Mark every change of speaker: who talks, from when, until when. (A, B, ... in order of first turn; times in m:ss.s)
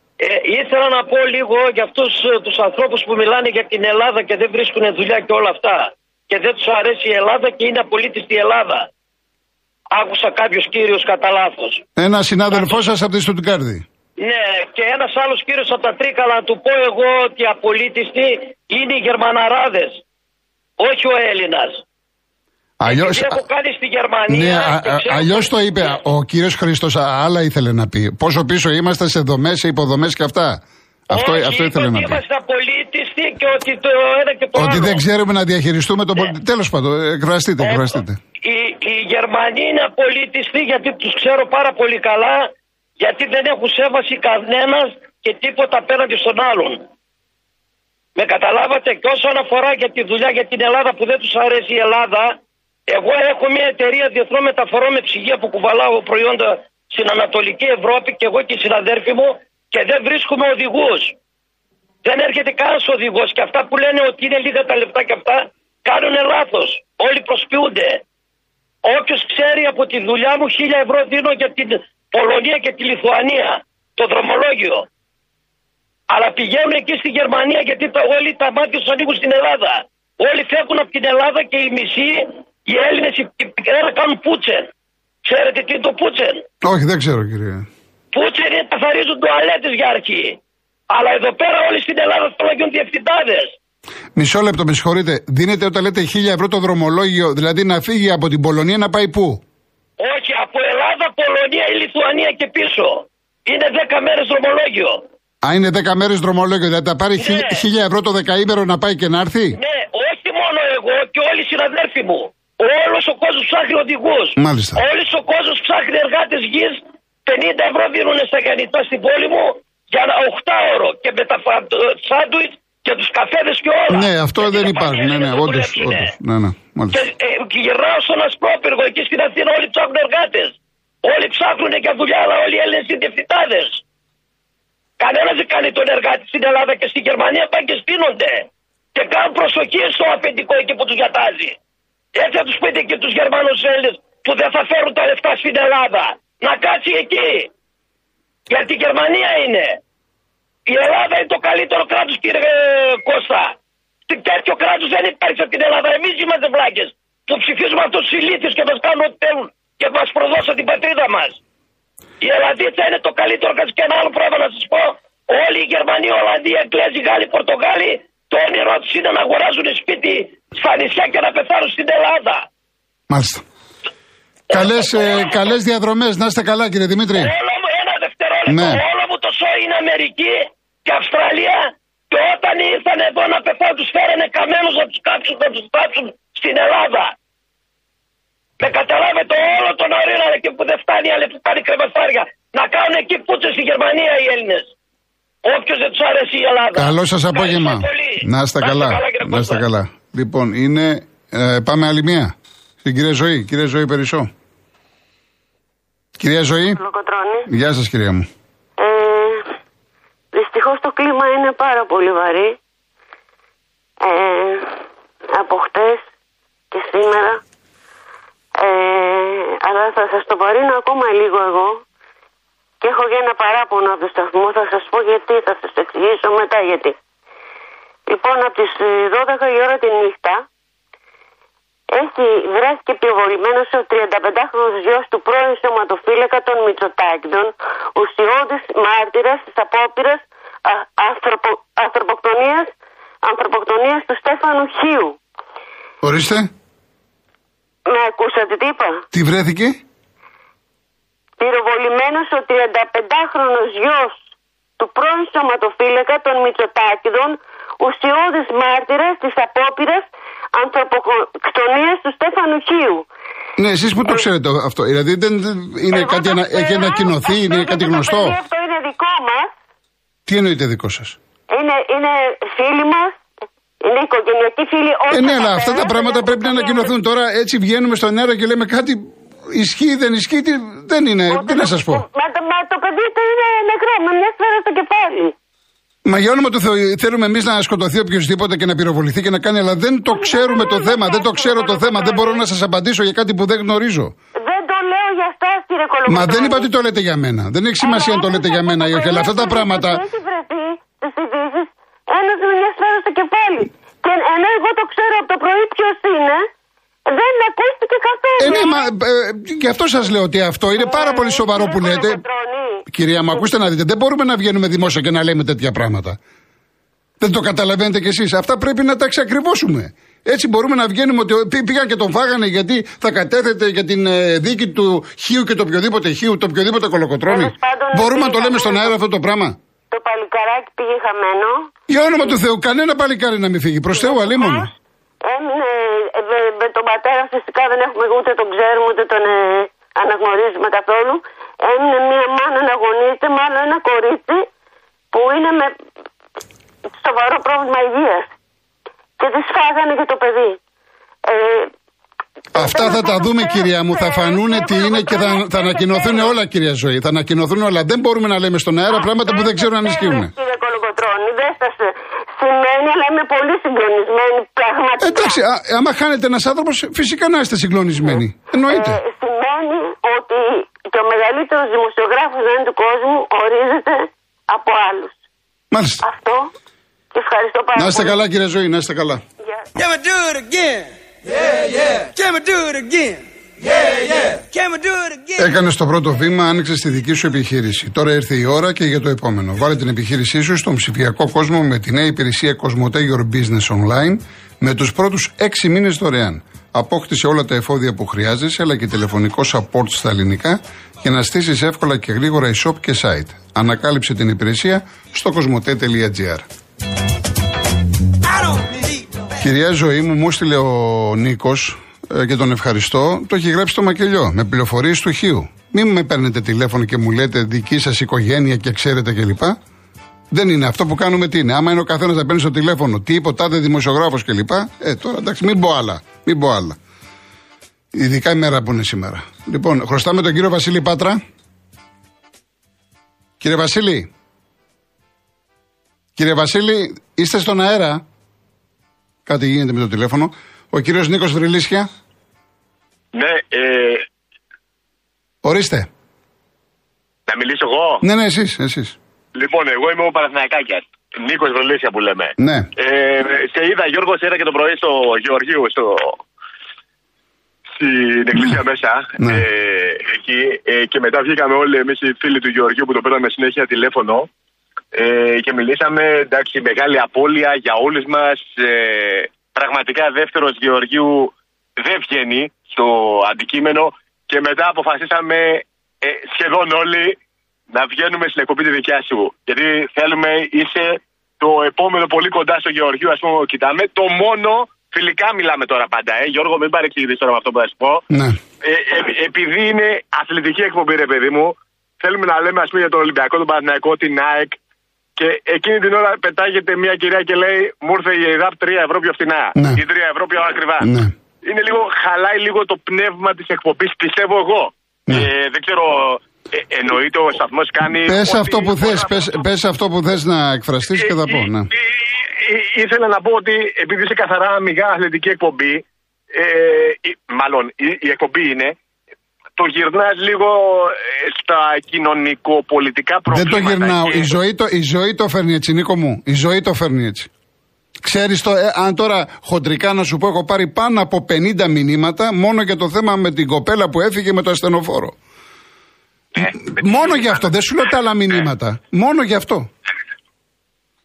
0:00.2-0:08.9 A
0:09.9-0:11.8 A
0:12.0-0:13.8 B
0:12.5-0:12.8 A
0:14.2-0:20.0 A
0:20.8-0:21.8 A
0:22.8-0:23.4 B
0:22.8-0:26.0 A
0:24.3-0:32.2 B
0:31.1-0:35.0 A
0:34.6-0:38.2 B
0:37.6-0:46.8 A
0:48.2-0:52.4 A
0:52.9-1:01.2 A
1:02.0-1:08.0 A
1:08.8-1:14.9 A
1:16.1-1:24.7 A
1:25.2-1:26.4 A
1:26.6-1:27.7 B
1:28.1-1:30.4 A
1:30.9-1:33.6 A
1:34.2-1:39.4 B
1:40.0-1:45.1 A
1:45.4-1:49.6 B
1:47.2-1:47.6 A
1:49.5-2:06.1 A
1:54.4-1:54.8 B
2:03.9-2:07.0 B
2:06.9-2:13.8 A
2:15.0-2:21.6 A
2:22.2-2:27.5 A
2:28.5-2:29.8 A
2:30.7-2:33.6 A
2:34.1-2:41.4 A
2:42.2-2:52.5 A
2:53.1-2:53.4 B
2:54.5-2:57.3 B
2:54.5-2:55.5 A
2:57.2-3:07.2 A
2:58.5-2:58.8 B
3:08.6-3:14.7 A
3:15.4-3:19.6 A
3:16.8-3:24.3 B
3:26.2-3:26.8 B
3:26.8-3:27.5 C
3:27.5-3:28.3 B
3:28.8-3:29.4 C
3:30.3-3:32.6 C
3:34.0-3:34.8 C
3:35.3-3:36.0 C
3:36.7-3:37.4 C
3:38.6-3:41.8 C
3:42.8-3:47.0 C
3:48.1-3:50.5 C
3:51.9-4:05.2 C
4:06.0-4:06.5 B
4:07.9-4:09.1 C
4:09.1-4:09.8 B
4:11.4-4:14.2 C
4:14.8-4:23.1 C
4:23.6-4:28.4 B
4:25.9-4:29.5 C
4:30.3-4:31.2 B
4:31.5-4:33.2 C
4:33.8-4:36.9 C
4:35.1-4:42.0 B
4:41.3-4:45.4 C
4:46.0-4:54.1 B
4:50.1-4:52.4 C
4:54.4-4:56.7 C
4:56.1-5:00.0 B
4:57.8-5:06.5 C
5:07.1-5:08.9 C
5:08.4-5:12.2 B
5:10.8-5:12.8 C
5:12.9-5:16.2 B
5:17.2-5:29.6 B
5:27.3-5:28.9 C
5:29.9-5:31.9 C
5:31.9-5:34.7 B
5:34.0-5:34.7 C
5:35.2-5:44.5 C
5:45.1-5:45.7 C
5:46.9-5:48.3 C
5:49.2-5:50.6 C
5:51.2-5:51.7 C
5:52.6-5:56.3 C
5:52.6-6:00.3 B
5:59.2-6:05.4 C
6:05.0-6:09.0 B
6:08.7-6:15.2 C
6:15.7-6:16.0 B
6:16.0-6:16.5 C
6:17.1-6:18.2 C
6:17.8-6:19.2 B
6:19.8-6:25.5 D
6:25.4-6:46.4 B
6:49.4-6:59.6 B
7:00.3-7:06.8 B
7:07.9-7:11.2 B
7:13.4-7:14.1 B
7:16.2-7:18.0 B
7:19.3-7:21.9 B
7:23.1-7:24.1 E
7:25.4-7:25.9 B
7:27.3-7:28.0 E
7:28.0-7:29.0 B
7:29.4-7:36.2 E
7:32.4-7:32.7 B
7:37.8-7:44.3 E
7:44.9-7:57.2 E
7:57.7-8:08.0 E
8:08.1-8:08.4 B
8:08.6-8:14.6 E
8:15.2-8:20.9 E
8:19.6-8:19.8 B
8:20.8-8:21.1 B
8:21.4-8:29.3 E
8:28.1-8:31.7 B
8:31.1-8:38.8 E
8:39.6-8:44.3 E
8:43.3-8:47.3 B
8:48.0-8:55.2 B
8:56.4-8:59.7 B
8:56.4-8:57.4 E